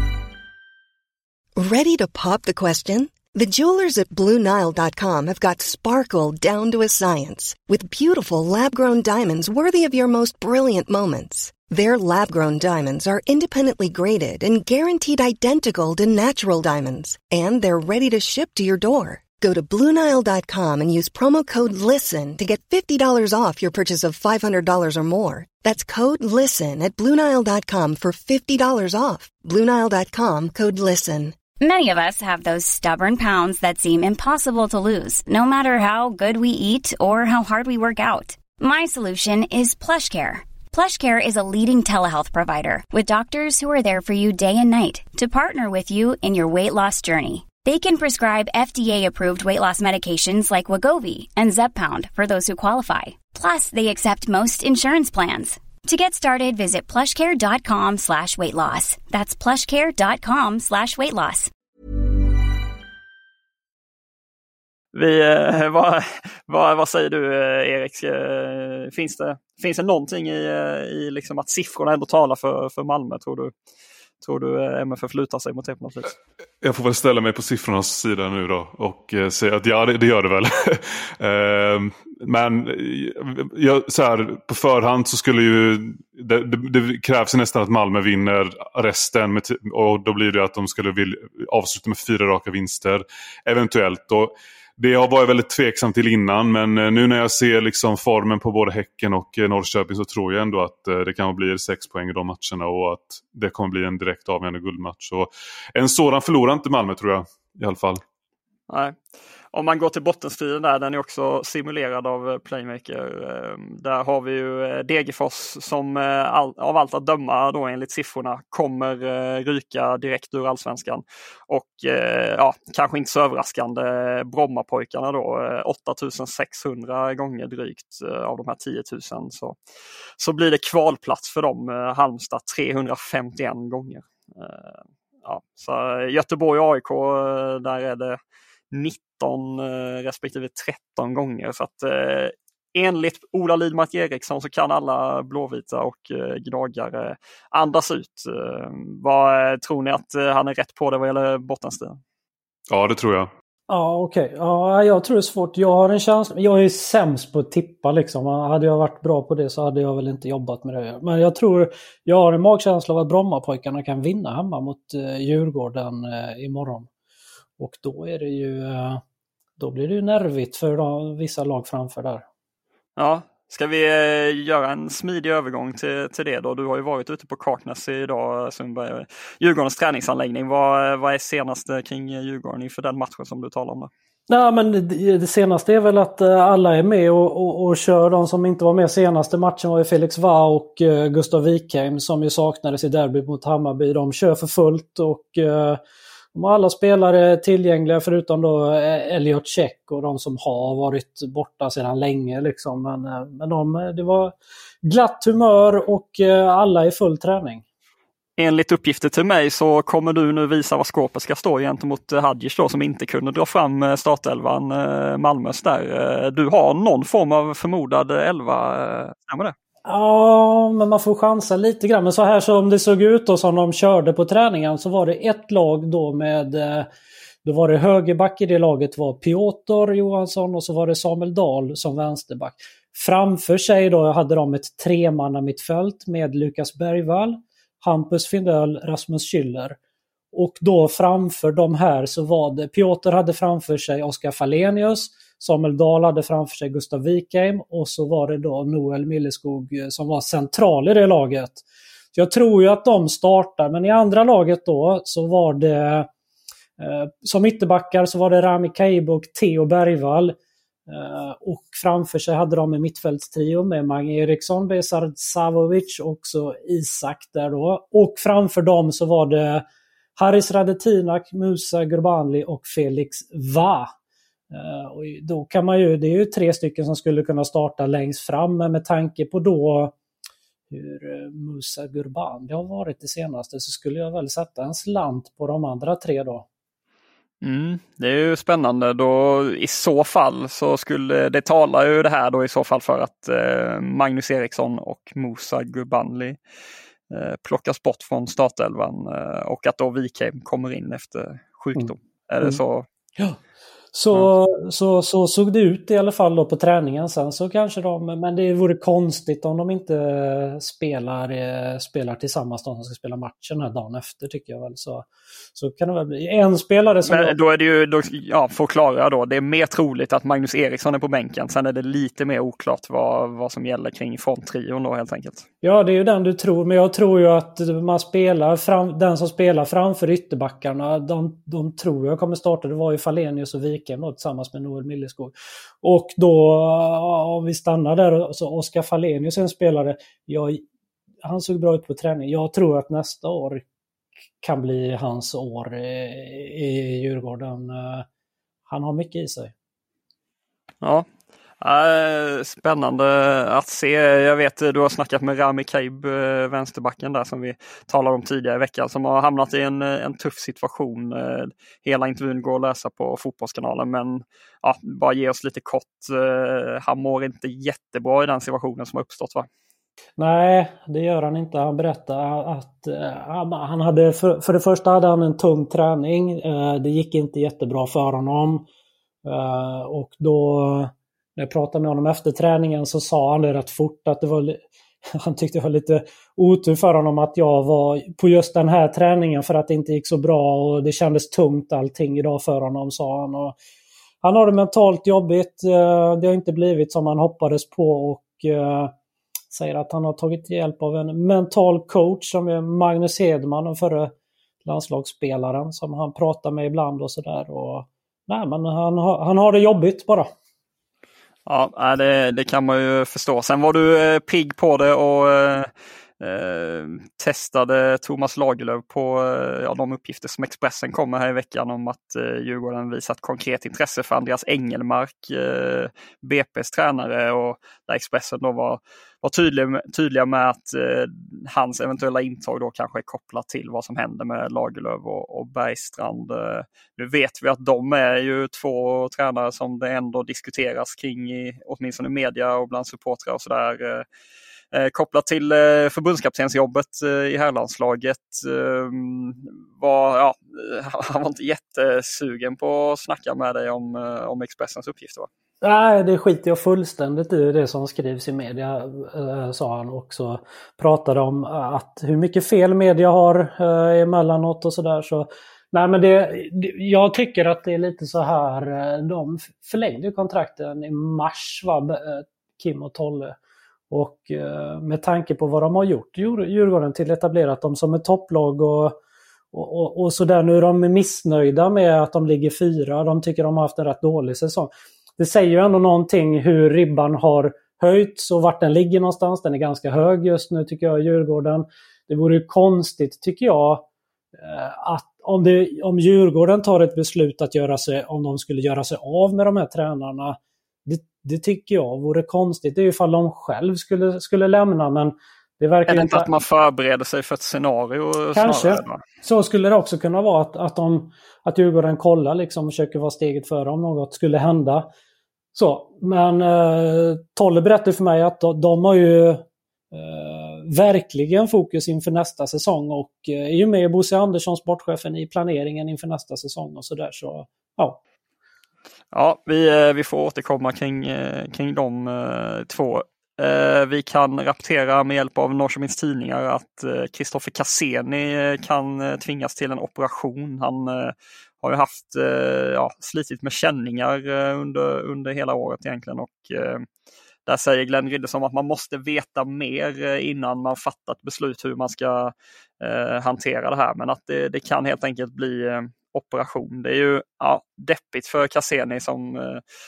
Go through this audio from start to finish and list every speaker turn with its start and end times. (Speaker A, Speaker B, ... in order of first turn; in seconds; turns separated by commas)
Speaker A: 1.8-4.2, Speaker A: 4.8-31.3, Speaker B: 31.6-61.5, Speaker C: 64.9-73.5, Speaker C: 74.2-76.1, Speaker D: 76.6-108.0, Speaker C: 108.7-109.0, Speaker C: 109.5-129.6, Speaker C: 130.2-138.2, Speaker C: 138.7-152.0, Speaker D: 152.7-153.3, Speaker E: 153.7-166.9, Speaker E: 167.6-169.0, Speaker E: 169.6-172.2, Speaker C: 173.0-183.9, Speaker E: 184.3-195.8, Speaker E: 196.3-207.6, Speaker C: 208.4-219.5, Speaker E: 219.9-226.9, Speaker E: 227.4-239.8, Speaker E: 240.3-256.1, Speaker E: 256.8-260.3, Speaker E: 260.9-269.6, Speaker E: 270.2-273.9, Speaker E: 274.5-279.9, Speaker E: 280.7-286.4, Speaker C: 287.4-296.4, Speaker C: 297.1-302.9, Speaker E: 303.9-317.3, Speaker C: 317.0-325.4, Speaker E: 325.6-340.6, Speaker E: 341.2-343.6, Speaker E: 344.4-348.0, Speaker E: 348.7-349.5, Speaker C: 351.6-369.5, Speaker E: 370.2-378.6, Speaker E: 379.2-384.6, Speaker E: 385.2-393.6, Speaker E: 394.2-398.9, Speaker E: 399.5-404.1, Speaker E: 404.6-410.3, Speaker C: 411.4-415.7, Speaker C: 416.2-444.1, Speaker C: 444.7-455.3, Speaker E: 455.6-473.4, Speaker E: 473.9-479.0, Speaker E: 479.5-493.9, Speaker E: 494.4-506.3, Speaker C: 505.9-509.0, Speaker E: 508.3-514.9, Speaker E: 515.5-528.0, Speaker C: 529.1-546.8, Speaker C: 547.5-559.6